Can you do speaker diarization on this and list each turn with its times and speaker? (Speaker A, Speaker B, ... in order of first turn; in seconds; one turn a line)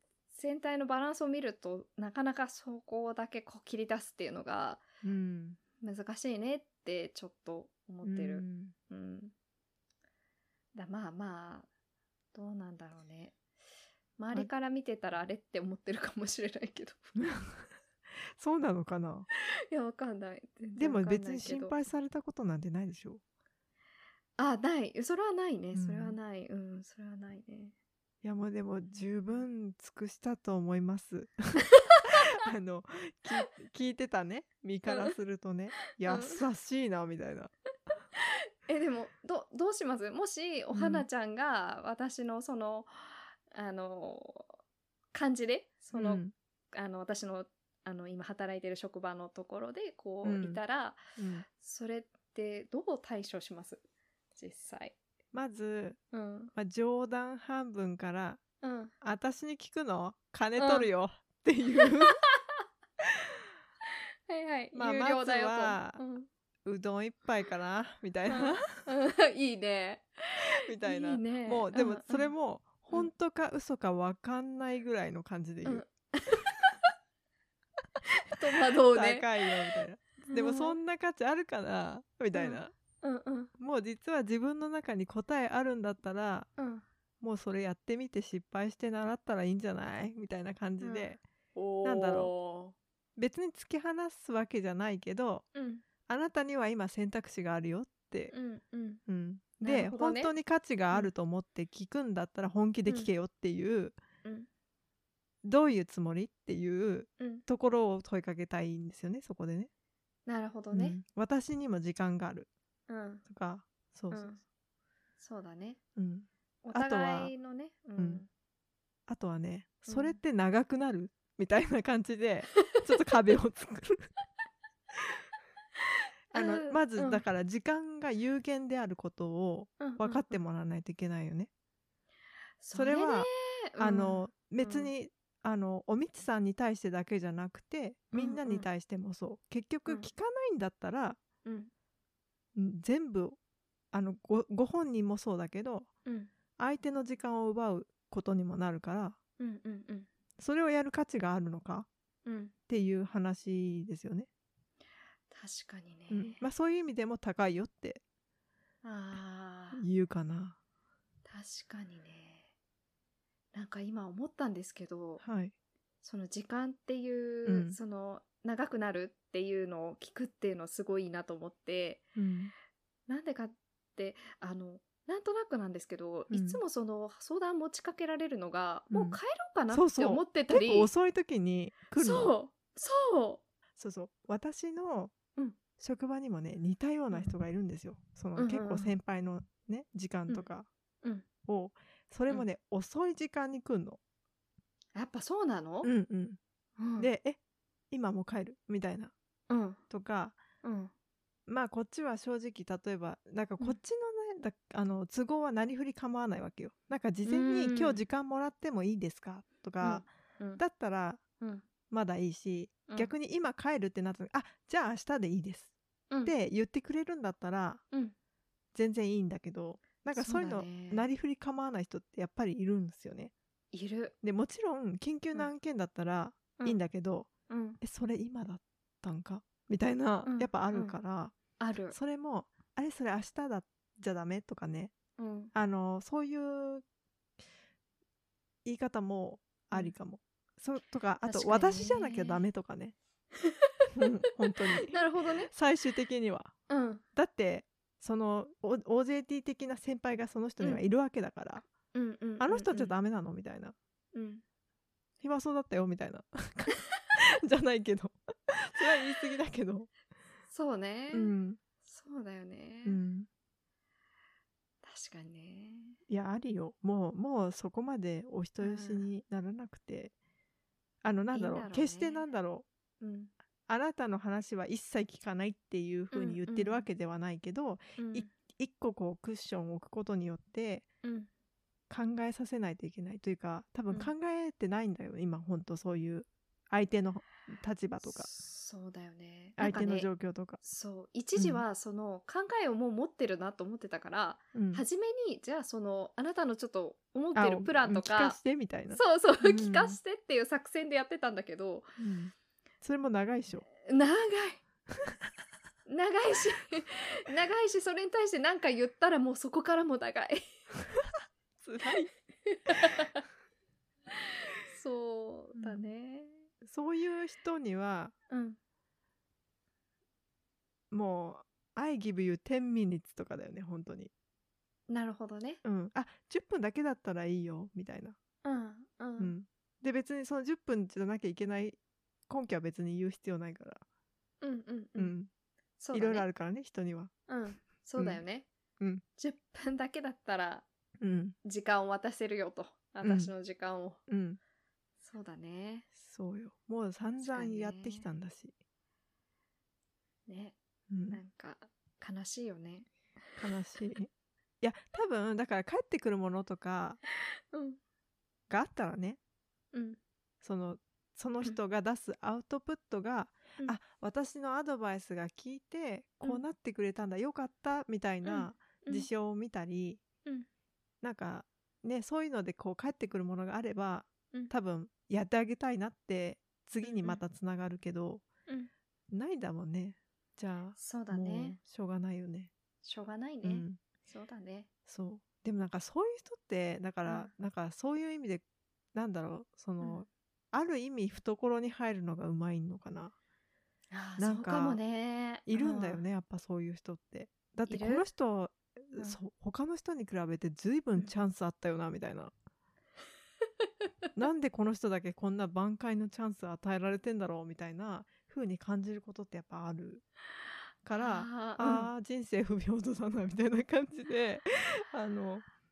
Speaker A: 0.3-4.8
Speaker B: 5.0-5.6
Speaker A: 5.8-9.3
Speaker B: 8.0-8.7
Speaker A: 10.8-11.7
Speaker A: 12.3-13.4
Speaker A: 14.2-17.2
Speaker B: 17.2-17.6
Speaker B: 18.3-19.3
Speaker A: 19.7-21.8
Speaker B: 20.8-23.2
Speaker A: 24.4-27.8
Speaker B: 25.7-26.2
Speaker B: 28.2-37.5
Speaker A: 34.9-35.1
Speaker A: 36.0-36.4
Speaker A: 38.2-44.6
Speaker B: 40.7-41.0
Speaker A: 45.1-53.8
Speaker B: 45.9-46.3
Speaker B: 50.2-50.6
Speaker B: 51.2-51.5
Speaker A: 54.4-55.0
Speaker B: 55.3-56.0
Speaker A: 56.1-56.5
Speaker B: 56.5-58.4
Speaker A: 58.6-58.9
Speaker B: 59.0-62.2
Speaker A: 60.6-60.9
Speaker A: 64.3-66.3
Speaker B: 64.7-66.0
Speaker B: 66.7-68.8
Speaker A: 68.3-72.3
Speaker B: 70.4-75.8
Speaker A: 75.6-76.6
Speaker A: 78.1-79.5
Speaker B: 78.6-82.7
Speaker A: 80.3-80.8
Speaker A: 82.3-83.5
Speaker B: 83.6-86.5
Speaker A: 86.6-86.8
Speaker B: 87.2-91.2
Speaker A: 90.8-92.8
Speaker B: 91.8-92.3
Speaker B: 93.2-95.5
Speaker A: 95.5-95.8
Speaker B: 96.1-98.3
Speaker A: 98.3-99.0
Speaker B: 99.1-104.0
Speaker A: 99.6-100.3
Speaker B: 105.4-109.7
Speaker A: 107.2-107.5
Speaker A: 110.3-111.0
Speaker B: 110.7-112.5
Speaker A: 112.9-113.2
Speaker B: 113.3-114.3
Speaker A: 114.1-114.4
Speaker A: 115.2-115.8
Speaker B: 116.0-117.3
Speaker A: 116.6-118.3
Speaker B: 118.0-118.2
Speaker B: 119.1-124.1
Speaker A: 119.9-120.2
Speaker A: 126.3-127.2
Speaker B: 126.3-131.5
Speaker A: 129.8-130.4
Speaker A: 132.6-134.9
Speaker B: 132.7-141.2
Speaker A: 138.1-138.7
Speaker A: 141.4-141.7
Speaker B: 142.6-143.4
Speaker B: 143.9-145.9
Speaker A: 146.1-146.3
Speaker B: 146.6-149.2
Speaker A: 149.4-150.1
Speaker B: 150.4-151.9
Speaker A: 152.2-152.5
Speaker B: 152.7-154.3
Speaker A: 155.3-156.4
Speaker B: 156.1-158.0
Speaker A: 158.8-159.8
Speaker B: 159.8-160.6
Speaker A: 161.3-162.5
Speaker A: 163.5-165.2
Speaker B: 165.2-165.5
Speaker A: 166.0-172.0
Speaker B: 167.4-167.8
Speaker B: 172.2-172.5
Speaker A: 173.1-180.9
Speaker B: 176.3-176.6
Speaker B: 178.9-179.2
Speaker B: 179.7-182.3
Speaker A: 182.0-183.4
Speaker B: 183.8-185.1
Speaker B: 185.8-190.7
Speaker A: 188.4-188.9
Speaker B: 191.5-194.0
Speaker A: 194.9-195.9
Speaker B: 195.8-196.4
Speaker A: 196.8-197.1
Speaker B: 197.0-197.4
Speaker B: 197.9-199.1
Speaker A: 199.5-199.8
Speaker B: 199.9-200.4
Speaker A: 200.6-200.9
Speaker B: 201.5-211.2
Speaker A: 207.2-208.1
Speaker A: 209.8-210.6
Speaker B: 211.9-215.7
Speaker B: 216.2-217.8
Speaker B: 218.7-223.3
Speaker A: 220.1-221.1
Speaker A: 223.7-224.1
Speaker B: 224.2-227.3
Speaker A: 227.5-227.8
Speaker B: 227.8-231.3
Speaker A: 230.3-231.0
Speaker A: 231.6-232.0
Speaker B: 231.9-234.9
Speaker A: 235.2-235.5
Speaker B: 235.5-236.8
Speaker B: 238.7-242.9
Speaker A: 241.2-242.4
Speaker A: 243.4-243.9
Speaker B: 243.9-246.5
Speaker A: 244.7-245.5
Speaker A: 246.7-247.0
Speaker B: 247.2-251.7
Speaker A: 251.9-252.9
Speaker B: 252.4-253.8
Speaker A: 254.1-254.4
Speaker B: 255.2-259.9
Speaker A: 260.5-261.3
Speaker B: 261.1-261.6
Speaker A: 261.9-263.0
Speaker B: 262.9-263.3
Speaker A: 264.8-266.0
Speaker B: 266.1-270.1
Speaker A: 268.6-269.1
Speaker B: 271.0-272.6
Speaker A: 271.3-272.2
Speaker A: 273.0-273.3
Speaker B: 273.7-280.9
Speaker A: 276.1-276.8
Speaker A: 278.0-278.3
Speaker A: 281.0-281.3
Speaker B: 281.9-288.3
Speaker A: 288.0-290.1
Speaker B: 289.6-290.6
Speaker A: 290.6-298.4
Speaker B: 291.4-291.6
Speaker B: 294.5-294.8
Speaker B: 297.4-300.0
Speaker A: 298.9-301.9
Speaker B: 302.0-303.7
Speaker A: 303.8-304.6
Speaker A: 305.9-310.4
Speaker B: 311.6-312.1
Speaker A: 311.9-313.2
Speaker A: 314.7-316.5
Speaker B: 315.6-315.8
Speaker B: 316.6-318.1
Speaker A: 318.3-318.6
Speaker B: 320.9-324.1
Speaker A: 324.9-325.6
Speaker B: 325.6-328.2
Speaker A: 328.4-329.3
Speaker B: 329.2-333.8
Speaker A: 334.4-335.1
Speaker B: 335.0-335.3
Speaker A: 335.8-336.3
Speaker B: 335.9-337.1
Speaker A: 337.3-338.5
Speaker A: 339.2-340.6
Speaker B: 341.0-341.4
Speaker A: 341.4-344.0
Speaker B: 343.0-343.3
Speaker B: 344.1-344.4
Speaker A: 345.0-345.9
Speaker B: 346.0-348.5
Speaker A: 347.2-348.1
Speaker A: 350.3-350.6
Speaker B: 350.9-351.2
Speaker A: 351.1-353.4
Speaker B: 353.4-354.1
Speaker B: 354.6-357.0
Speaker A: 357.5-357.8
Speaker B: 358.5-359.2
Speaker A: 359.7-360.0
Speaker B: 360.4-370.0
Speaker A: 368.2-369.1
Speaker B: 371.0-378.2
Speaker A: 376.8-377.2
Speaker B: 379.1-382.5
Speaker A: 380.8-381.6
Speaker A: 382.8-384.7
Speaker B: 383.4-383.8
Speaker B: 384.9-393.1
Speaker A: 387.1-387.3
Speaker A: 393.9-396.0
Speaker B: 394.2-394.8
Speaker B: 395.5-402.3
Speaker A: 397.7-398.1
Speaker B: 404.1-410.0
Speaker B: 410.9-415.5
Speaker A: 410.9-411.9